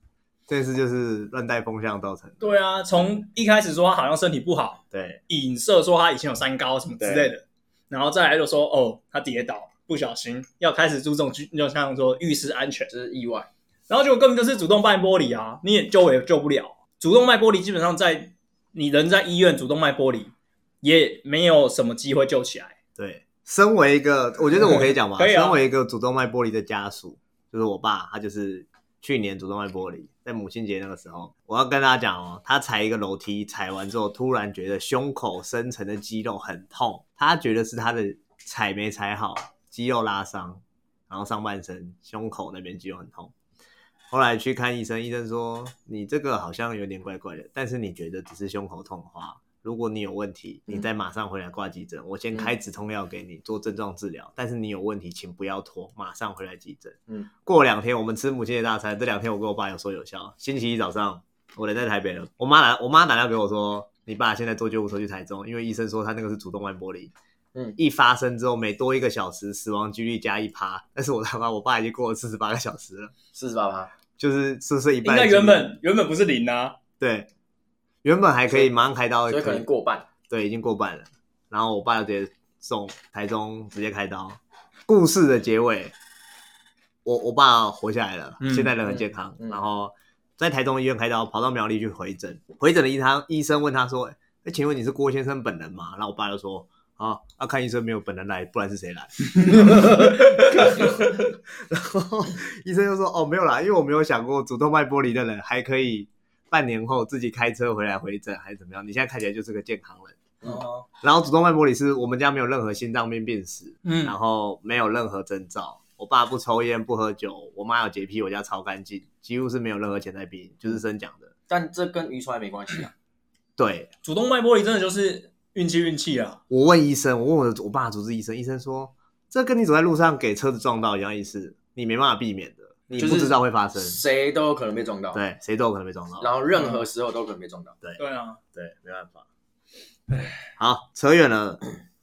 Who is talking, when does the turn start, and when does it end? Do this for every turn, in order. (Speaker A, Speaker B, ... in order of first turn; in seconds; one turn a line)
Speaker A: 0.5-2.4
Speaker B: 2.4-12.9
Speaker A: 4.9-5.2
Speaker A: 7.0-7.3
Speaker C: 12.9-13.5
Speaker B: 13.9-22.8
Speaker A: 23.0-43.3
Speaker B: 24.6-25.6
Speaker A: 44.1-67.1
Speaker A: 67.8-73.1
Speaker C: 73.3-73.9
Speaker A: 74.2-75.7
Speaker B: 75.0-76.8
Speaker A: 77.0-77.3
Speaker A: 78.0-79.7
Speaker C: 79.3-80.1
Speaker A: 80.3-85.9
Speaker A: 87.0-110.2
Speaker B: 88.4-88.7
Speaker C: 88.9-89.6
Speaker B: 100.5-100.8
Speaker B: 110.5-110.8
Speaker A: 111.0-121.3
Speaker B: 113.8-114.2
Speaker C: 121.5-122.9
Speaker A: 123.6-123.9
Speaker B: 124.0-126.4
Speaker A: 126.5-134.0
Speaker C: 133.0-135.2
Speaker A: 135.1-136.3
Speaker C: 136.2-137.8
Speaker B: 138.0-138.4
Speaker A: 138.5-139.2
Speaker A: 140.6-141.6